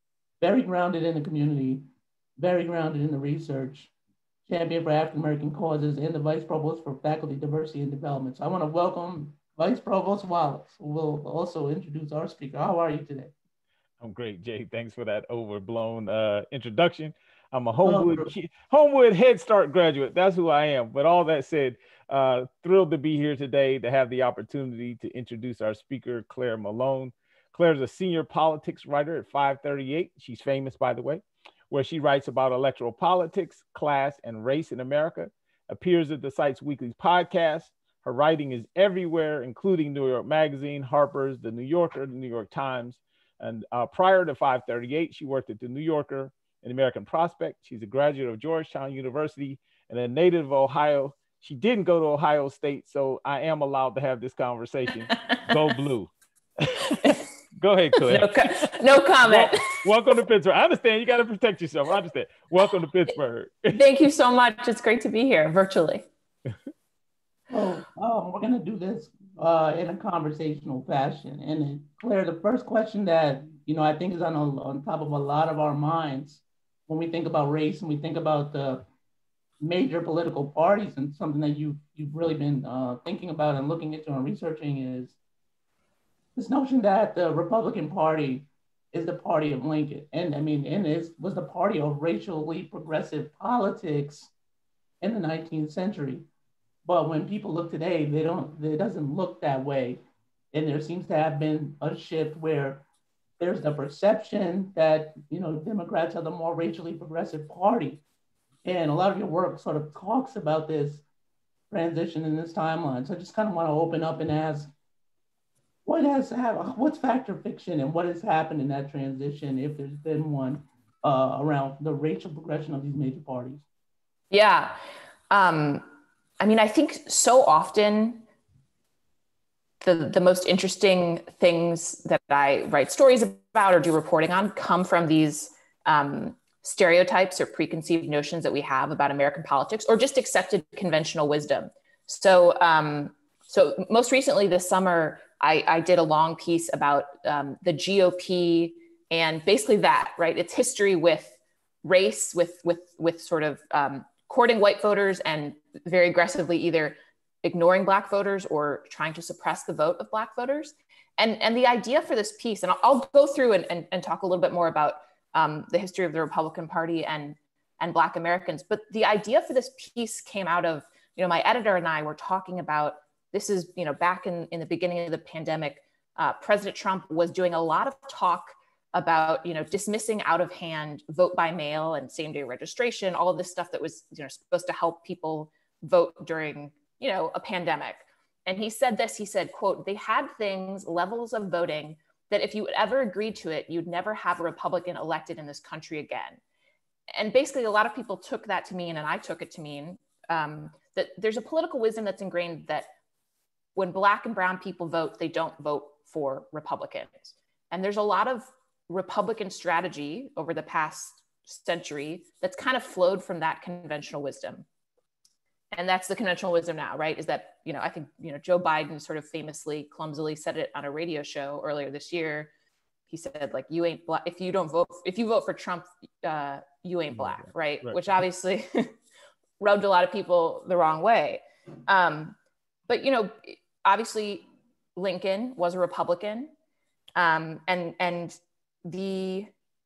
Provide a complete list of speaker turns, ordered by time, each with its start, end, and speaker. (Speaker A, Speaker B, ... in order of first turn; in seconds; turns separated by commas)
Speaker A: 0.4-3.9, Speaker A: 4.5-13.3, Speaker B: 14.0-58.7, Speaker A: 17.8-18.3, Speaker C: 55.3-55.6, Speaker C: 58.0-59.9, Speaker B: 59.2-63.8, Speaker C: 63.7-66.1, Speaker A: 67.5-78.9, Speaker A: 79.6-85.2, Speaker A: 86.3-94.3, Speaker A: 95.0-96.3, Speaker A: 96.8-100.0, Speaker A: 100.5-102.8, Speaker A: 103.4-108.0, Speaker A: 108.6-111.0, Speaker A: 111.7-114.7, Speaker A: 115.8-123.7, Speaker C: 124.3-124.8, Speaker C: 125.3-125.9, Speaker C: 126.4-128.2, Speaker C: 129.8-196.4, Speaker C: 197.2-202.9, Speaker C: 203.8-214.7, Speaker C: 215.7-222.5, Speaker C: 223.1-228.9, Speaker B: 227.2-228.0, Speaker C: 229.6-232.4, Speaker C: 232.9-236.5, Speaker C: 237.2-239.5